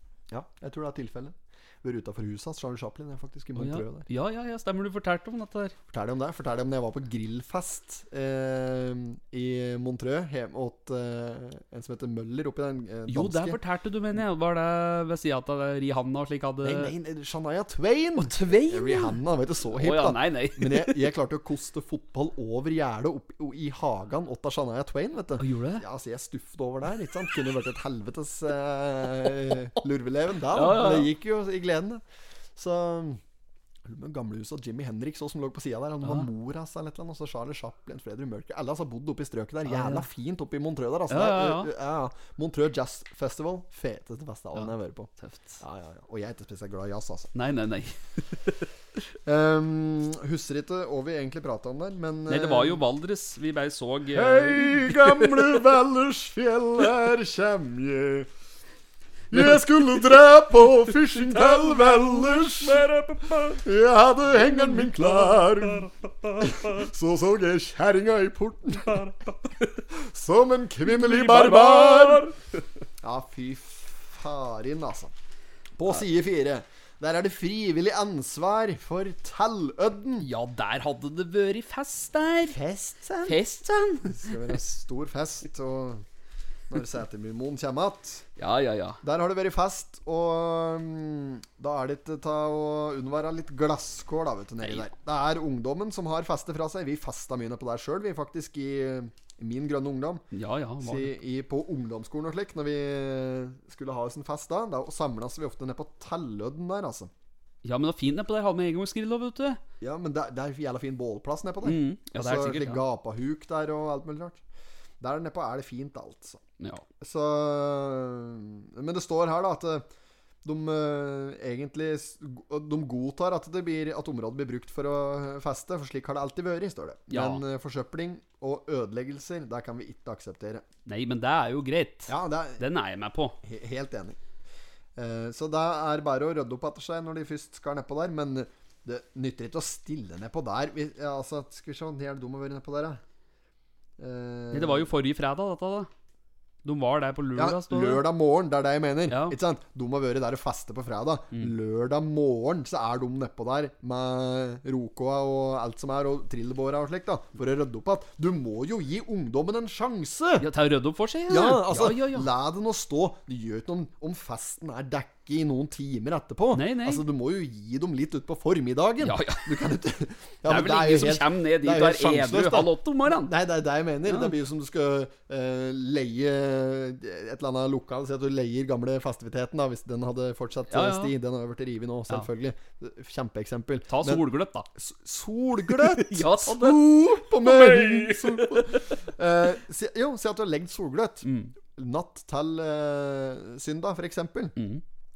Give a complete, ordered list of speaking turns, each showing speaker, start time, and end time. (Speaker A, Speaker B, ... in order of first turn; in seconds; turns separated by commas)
Speaker A: 0.3-4.1, Speaker B: 3.5-5.7, Speaker A: 5.9-13.6, Speaker B: 13.1-16.9, Speaker A: 16.6-32.0, Speaker B: 18.2-19.2, Speaker B: 19.7-21.0, Speaker B: 25.4-25.8, Speaker B: 30.5-31.1, Speaker A: 32.5-33.2, Speaker A: 33.8-47.3, Speaker B: 36.0-36.3, Speaker B: 39.6-40.0, Speaker B: 41.1-41.7, Speaker B: 44.5-45.6, Speaker B: 47.3-48.7, Speaker A: 49.2-52.8, Speaker B: 52.3-55.6, Speaker A: 54.1-58.3, Speaker A: 59.3-69.3, Speaker B: 61.1-63.5, Speaker A: 69.9-72.3, Speaker B: 70.8-72.4, Speaker A: 73.0-75.1, Speaker A: 75.8-80.3, Speaker B: 80.2-82.6, Speaker A: 82.5-83.4, Speaker B: 83.2-84.3, Speaker A: 84.0-86.0, Speaker A: 86.7-88.2, Speaker B: 88.4-89.0, Speaker A: 89.0-100.2, Speaker B: 94.6-94.9, Speaker B: 100.3-101.2, Speaker A: 100.8-107.1, Speaker B: 107.6-109.6, Speaker A: 109.8-114.4, Speaker B: 111.6-112.8, Speaker A: 115.0-116.4, Speaker A: 117.0-119.9, Speaker A: 120.4-130.6, Speaker B: 127.1-127.4, Speaker B: 130.8-133.4, Speaker A: 132.1-132.7, Speaker A: 133.4-134.2, Speaker A: 134.9-143.0, Speaker A: 144.0-144.9, Speaker B: 144.5-145.9, Speaker B: 146.6-148.0, Speaker A: 147.3-160.5, Speaker B: 149.1-149.3, Speaker B: 160.4-162.3, Speaker A: 161.3-194.6, Speaker B: 166.5-167.0, Speaker B: 169.0-169.5, Speaker B: 170.4-173.3, Speaker B: 174.1-174.3, Speaker B: 180.7-181.1, Speaker B: 183.9-184.7, Speaker B: 185.7-189.0, Speaker B: 191.2-191.5, Speaker B: 194.6-194.8